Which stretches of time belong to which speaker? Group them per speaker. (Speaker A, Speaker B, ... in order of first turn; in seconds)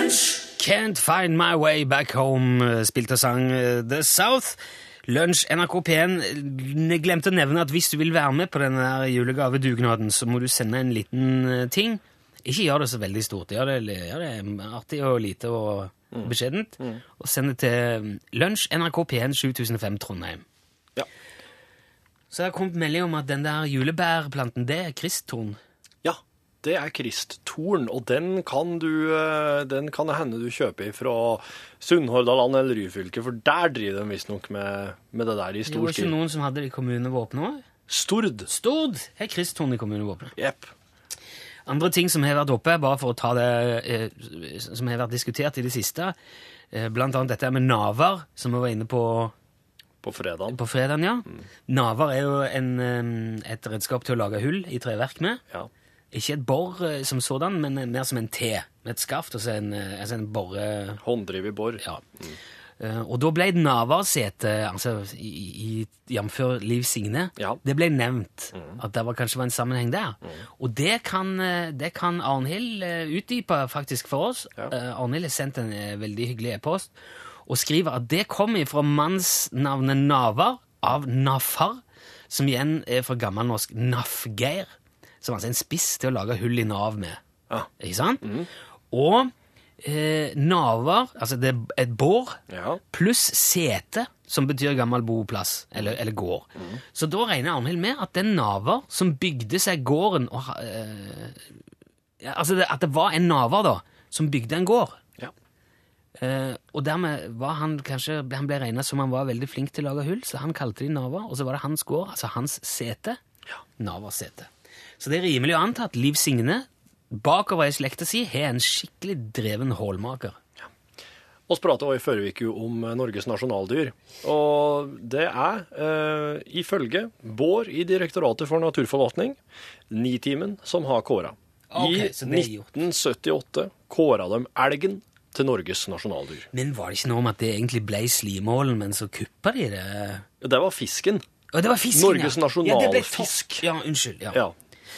Speaker A: 0.5-20.4, 22.3-25.6, 35.6-37.6, 38.5-40.3, 41.6-46.1, 46.7-49.3, 50.5-55.4, 56.1-61.0, 62.8-76.9, 77.5-87.2, 87.8-88.3, 88.9-92.4, 92.9-101.4, 102.2-105.0, 106.2-113.2, 113.8-114.5, 115.0-120.4, 131.7-132.7, 136.5-140.2, 141.5-144.4
Speaker B: 16.1-17.0, 26.0-36.1, 37.9-38.5, 40.4-40.7, 50.0-50.6, 61.0-62.4, 68.5-68.8, 88.2-88.5, 92.5-92.8, 121.5-129.4, 129.9-136.5, 140.4-141.2, 141.9-143.6